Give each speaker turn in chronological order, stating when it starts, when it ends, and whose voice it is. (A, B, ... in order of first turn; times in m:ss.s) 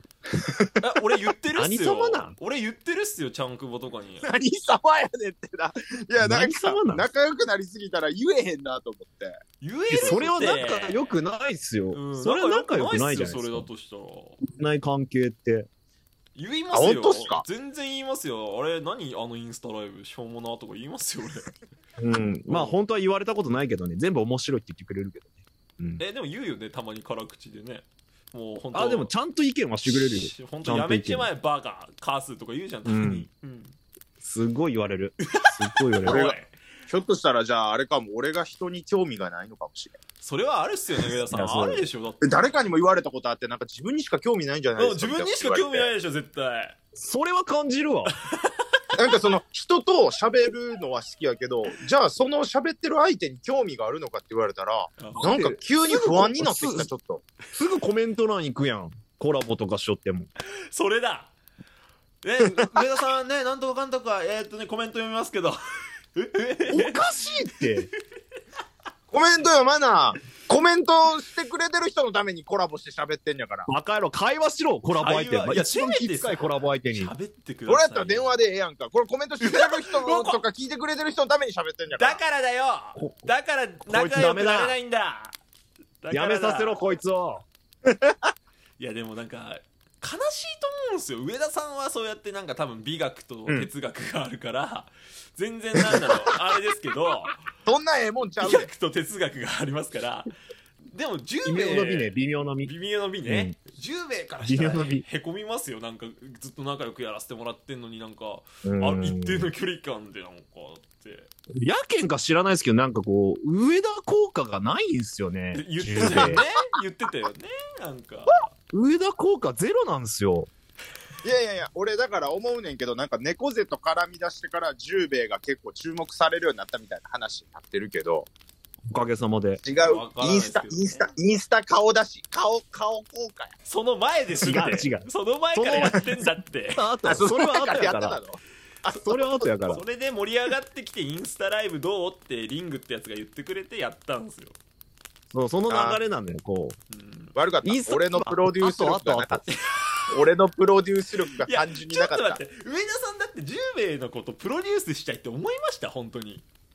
0:00.8-0:04.2 A
0:01.6-0:02.4 B
0:04.2-0:09.4 C
0:06.2-0:07.1 B
0:09.6-0:11.0 A
0:09.9-0:13.7 B
0:10.0-0:10.4 C
0:11.9-0:14.4 A
0:14.4-0:15.7 B
0:16.3-0:21.5 A
0:16.7-0:17.4 C
0:22.0-0:26.0 B
0:22.5-0:22.8 A
0:26.0-0:29.1 A
0:28.7-0:31.3 B
0:29.8-0:33.8 A
0:32.8-0:33.3 B
0:34.2-0:36.3 B
0:35.4-0:36.5 A
0:36.0-0:40.0 C
0:40.2-0:42.4 A
0:41.3-0:41.8 B
0:41.4-0:45.9 C
0:44.8-0:46.8 A
0:47.0-0:48.1 B
0:48.2-0:48.6 A
0:49.0-0:57.3 C
0:55.0-0:55.3 A
0:55.2-0:56.9 B
0:57.5-1:00.3 B
1:00.7-1:01.3 A
1:02.2-1:05.6 A
1:06.1-1:07.8 A
1:06.7-1:07.9 B
1:09.1-1:13.7 C
1:13.7-1:17.1 B
1:14.9-1:18.3 A
1:17.7-1:22.2 C
1:19.4-1:20.4 A
1:22.0-1:25.4 A
1:23.0-1:23.2 B
1:23.8-1:24.7 B
1:26.0-1:26.8 A
1:26.1-1:27.4 B
1:27.9-1:28.2 C
1:28.8-1:37.4 A
1:37.6-1:38.7 C
1:38.4-1:40.3 A
1:40.8-1:42.1 A
1:41.4-1:42.7 B
1:42.6-1:51.3 A
1:43.2-1:43.6 B
1:44.4-1:45.0 B
1:48.6-1:49.5 B
1:51.5-1:56.4 B
1:55.5-1:58.5 A
1:56.1-1:56.4 C
1:58.7-2:00.5 B
2:01.2-2:08.3 C
2:08.9-2:09.6 B
2:09.6-2:13.5 C
2:09.8-2:11.2 A
2:13.6-2:16.8 A
2:14.4-2:18.2 B
2:17.0-2:19.6 C
2:18.9-2:19.8 B
2:19.7-2:24.6 A
2:25.3-2:26.8 B
2:25.7-2:26.0 C
2:26.9-2:27.4 A
2:27.3-2:29.4 C
2:27.6-2:29.4 B
2:29.5-2:30.0 A
2:30.1-2:32.4 C
2:31.4-2:36.4 A